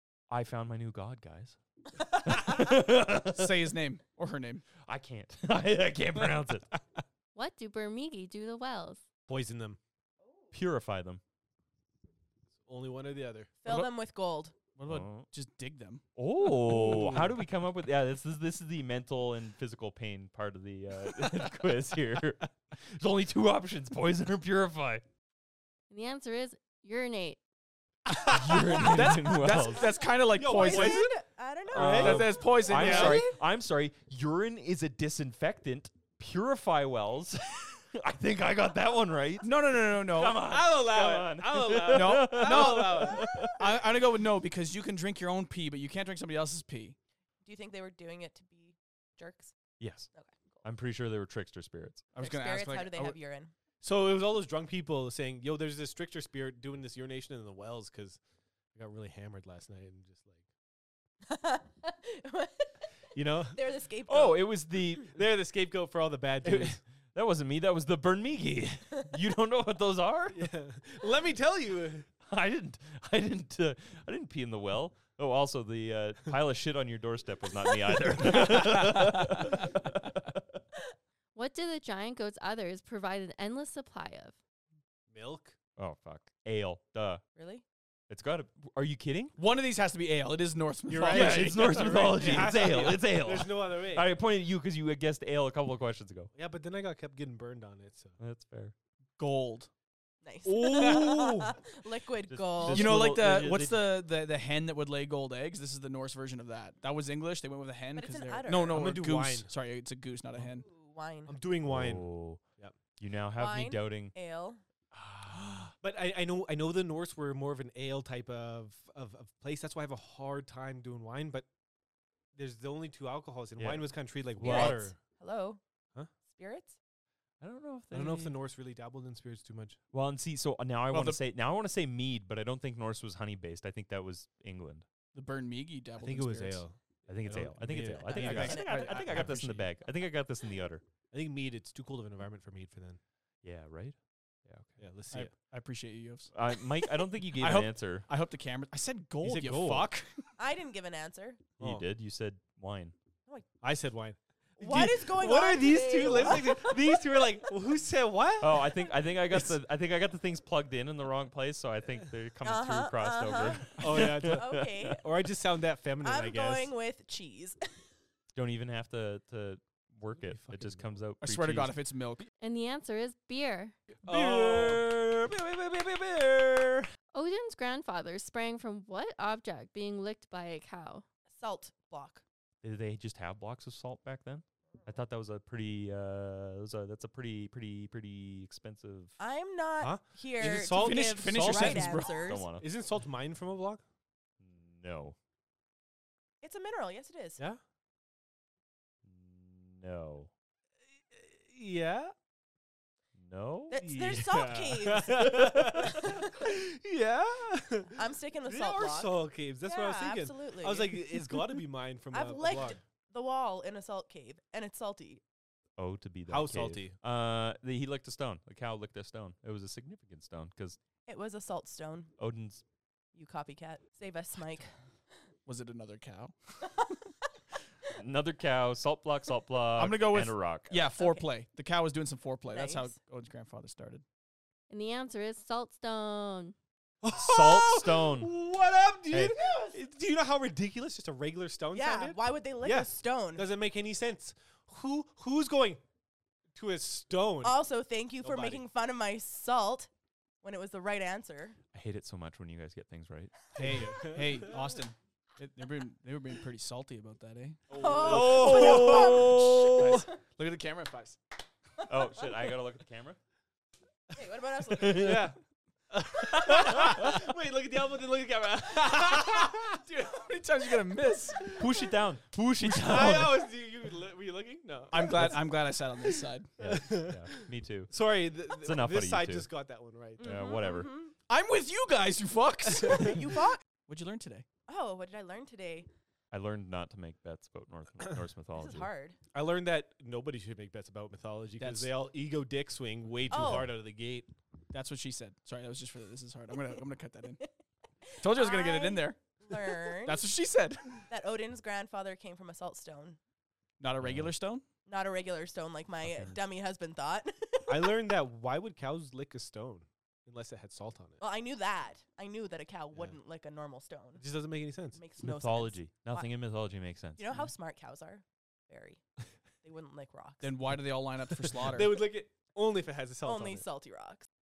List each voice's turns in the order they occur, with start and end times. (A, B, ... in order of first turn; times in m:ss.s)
0:00.3-0:03.7 A
0:03.3-0:04.7 B
0:04.8-0:06.8 A
0:07.3-0:09.0 C
0:09.3-0:09.8 D
0:10.5-0:11.2 A
0:12.6-0:13.5 D
0:13.6-0:14.6 E
0:14.8-0:16.0 B
0:14.9-0:15.3 A
0:16.2-0:25.0 A
0:16.7-0:17.2 B
0:25.9-0:27.4 C
0:28.1-0:31.1 B
0:28.3-0:30.0 A
0:29.8-0:33.1 E
0:30.4-0:31.1 D
0:30.7-0:31.1 A
0:31.7-0:33.3 D
0:31.7-0:43.8 A
0:31.8-0:33.3 B
0:39.4-0:40.4 B
0:40.4-0:43.6 D
0:41.9-0:47.0 B
0:47.4-0:49.6 E
0:49.8-0:50.1 A
0:50.1-0:50.6 E
0:50.6-0:52.1 A
0:52.1-0:53.2 B
0:52.2-0:53.5 E
0:53.8-0:58.2 D
0:58.8-1:00.4 D
1:01.3-1:02.8 E
1:03.2-1:03.6 D
1:03.5-1:04.8 E
1:04.1-1:05.1 A
1:05.1-1:06.8 D
1:06.4-1:10.4 A
1:10.3-1:12.1 D
1:12.2-1:20.6 A
1:18.8-1:19.1 B
1:21.4-1:24.4 C
1:25.1-1:25.6 D
1:25.8-1:27.2 A
1:27.4-1:27.6 E
1:28.1-1:29.4 A
1:29.4-1:32.6 B
1:30.9-1:34.1 D
1:31.1-1:36.3 A
1:36.3-1:38.2 D
1:38.2-1:38.8 A
1:39.2-1:39.7 B
1:40.2-1:43.0 E
1:40.4-1:41.6 D
1:42.3-1:43.9 A
1:42.6-1:50.7 B
1:48.0-1:48.8 E
1:48.7-1:49.5 D
1:50.5-1:51.4 E
1:51.3-1:52.1 D
1:51.6-1:52.4 A
1:53.0-1:54.1 A
1:53.4-1:54.6 E
1:55.0-1:55.7 A
1:55.8-2:01.5 D
2:02.4-2:05.0 D
2:03.6-2:04.9 A
2:04.4-2:05.6 E
2:06.3-2:06.8 E
2:07.4-2:08.4 A
2:07.9-2:09.8 D
2:09.9-2:14.9 A
2:10.9-2:11.2 B
2:15.1-2:16.6 B
2:16.0-2:18.6 D
2:17.1-2:20.8 A
2:17.8-2:19.1 E
2:18.1-2:19.7 B
2:21.1-2:23.0 D
2:23.4-2:24.9 A
2:24.8-2:25.3 D
2:25.1-2:30.2 B
2:26.3-2:28.1 A
2:29.2-2:30.0 D
2:30.4-2:31.6 E
2:31.6-2:33.0 A
2:31.6-2:31.9 D
2:33.6-2:39.5 D
2:34.6-2:37.0 E
2:38.4-2:45.0 A
2:42.4-2:45.0 E
2:43.8-2:46.7 D
2:46.0-2:47.8 E
2:48.4-2:51.8 A
2:50.2-2:50.9 D
2:51.2-2:52.3 B
2:52.4-2:53.8 C
2:54.0-2:54.8 D
2:54.1-2:56.9 A
2:57.1-3:01.0 C
3:01.3-3:02.2 E
3:02.6-3:09.2 A
3:09.2-3:12.5 E
3:09.8-3:13.8 D
3:10.4-3:12.3 B
3:12.2-3:12.7 A
3:14.4-3:15.2 A
3:16.4-3:17.4 E
3:19.0-3:20.3 A
3:21.1-3:22.1 D
3:23.2-3:23.8 A
3:23.7-3:25.1 E
3:23.8-3:32.8 D
3:25.4-3:26.0 A
3:28.0-3:31.1 E
3:32.1-3:35.2 E
3:35.8-3:40.8 A
3:36.3-3:37.0 D
3:41.1-3:42.1 E
3:42.2-3:42.6 A
3:43.2-3:44.7 E
3:45.5-3:46.8 B
3:48.0-3:50.7 A
3:49.7-3:54.0 B
3:50.7-3:51.3 E
3:52.5-3:52.9 E
3:54.7-3:56.6 C
3:57.0-4:05.8 D
3:57.1-3:58.3 A
3:59.1-3:59.4 A
4:01.7-4:03.5 E
4:06.6-4:07.6 D
4:07.4-4:09.9 E
4:08.2-4:08.6 D
4:10.4-4:11.6 E
4:11.7-4:13.5 A
4:13.6-4:14.6 D
4:13.6-4:21.2 B
4:17.7-4:19.0 D
4:17.7-4:19.3 E
4:18.6-4:20.0 A
4:21.9-4:23.2 A
4:22.0-4:22.5 E
4:24.1-4:25.2 E
4:24.8-4:25.3 A
4:24.9-4:25.4 D
4:25.9-4:29.8 D
4:29.8-4:31.5 B
4:31.3-4:31.8 D
4:31.5-4:33.4 A
4:32.6-4:35.5 D
4:34.9-4:36.6 B
4:36.0-4:40.4 D
4:36.6-4:37.9 A
4:38.6-4:39.5 A
4:40.2-4:41.1 E
4:40.2-4:40.9 A
4:41.3-4:43.3 B
4:42.7-4:43.2 D
4:42.8-4:43.6 E
4:43.9-4:44.4 B
4:44.7-4:45.9 E
4:46.3-4:48.9 A
4:48.6-4:49.2 E
4:49.3-4:54.4 D
4:51.6-4:51.9 B
4:53.3-4:53.7 E
4:53.4-4:53.6 A
4:54.7-4:57.4 B
4:58.2-5:01.1 B
4:58.2-5:00.2 E
5:01.1-5:03.2 E
5:03.8-5:04.6 B
5:04.0-5:04.3 A
5:04.9-5:08.1 E
5:06.0-5:06.4 A
5:07.7-5:11.2 D
5:11.2-5:14.2 E
5:14.2-5:15.0 D
5:15.0-5:16.3 E
5:15.2-5:17.3 A
5:17.2-5:19.0 E
5:19.6-5:20.6 E
5:20.4-5:22.0 B
5:21.6-5:23.7 D
5:23.2-5:24.3 E